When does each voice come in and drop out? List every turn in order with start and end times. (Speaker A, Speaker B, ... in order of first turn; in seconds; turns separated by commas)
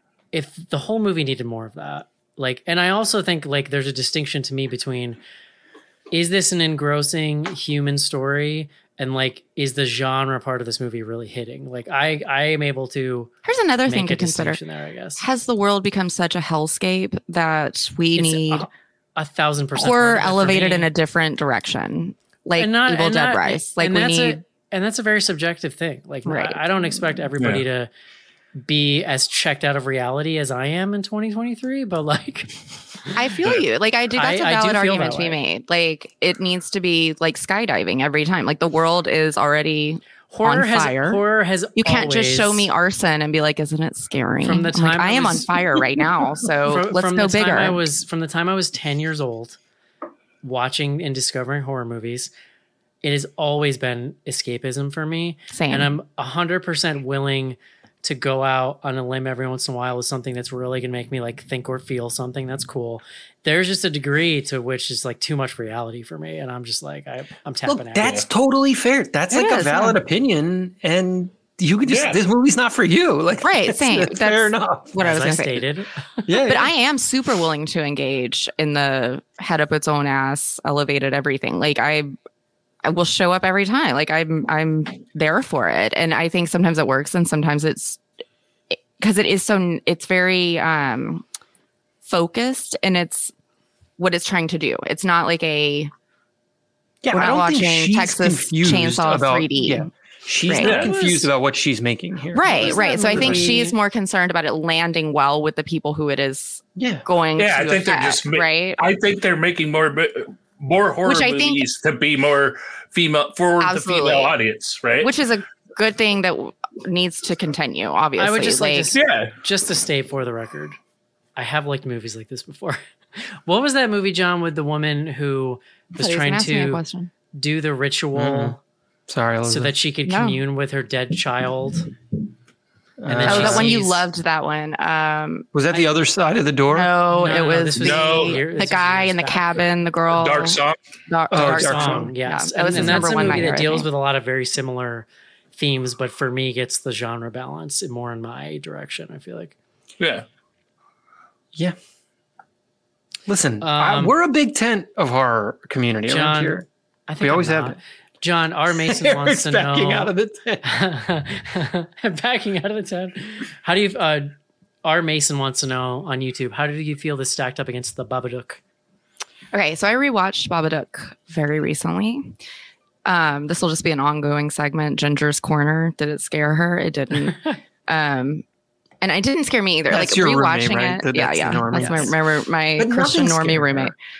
Speaker A: 0.3-5.2, Speaker A: 6.1-13.3, Speaker B: 13.4-14.6, Speaker A: 13.9-15.2, Speaker B: 15.2-18.7, Speaker A: 18.1-20.9, Speaker B: 19.8-24.4, Speaker A: 22.6-27.9, Speaker B: 26.3-26.6, Speaker C: 27.4-27.6, Speaker A: 28.6-33.1, Speaker B: 33.1-41.2, Speaker A: 34.1-35.4, Speaker A: 40.3-42.7, Speaker B: 41.8-47.8, Speaker A: 44.4-45.6, Speaker A: 46.7-49.6, Speaker A: 50.4-52.3, Speaker A: 53.0-68.2, Speaker B: 55.5-55.9, Speaker D: 67.7-75.4, Speaker B: 69.3-70.0, Speaker C: 71.9-72.2, Speaker B: 73.4-75.6, Speaker A: 75.0-76.3, Speaker D: 76.3-76.7, Speaker B: 76.4-82.1, Speaker B: 82.8-88.0, Speaker B: 88.7-91.2, Speaker B: 92.0-93.3, Speaker B: 94.0-95.9, Speaker D: 97.0-103.5, Speaker B: 97.1-99.9, Speaker B: 100.5-100.8, Speaker C: 100.6-100.9, Speaker A: 100.9-101.2, Speaker B: 102.3-108.8, Speaker A: 102.4-103.8, Speaker D: 106.8-107.0, Speaker C: 107.4-115.1, Speaker B: 111.0-111.6, Speaker B: 113.6-114.4, Speaker B: 115.0-118.9, Speaker A: 118.2-120.8, Speaker C: 119.0-119.3, Speaker A: 121.4-126.8, Speaker B: 126.0-127.1, Speaker A: 127.3-128.6, Speaker D: 128.2-128.6, Speaker D: 129.1-129.8, Speaker A: 129.5-131.9, Speaker B: 130.1-130.4, Speaker D: 133.0-133.7, Speaker A: 133.1-134.1, Speaker B: 133.2-135.5, Speaker D: 135.5-137.0, Speaker B: 136.7-143.9, Speaker A: 137.1-139.6, Speaker C: 137.8-138.4, Speaker C: 140.1-140.8, Speaker D: 141.3-142.1, Speaker A: 141.4-149.6, Speaker D: 142.8-143.2, Speaker C: 150.0-150.2, Speaker D: 153.3-156.7, Speaker A: 153.6-154.1, Speaker A: 156.1-160.1, Speaker D: 157.2-157.8, Speaker D: 158.7-160.6, Speaker A: 160.6-164.3, Speaker A: 164.8-168.6, Speaker B: 169.5-172.3, Speaker B: 173.1-178.4, Speaker B: 179.0-183.9, Speaker D: 179.9-182.2, Speaker A: 181.8-182.0, Speaker D: 182.8-183.9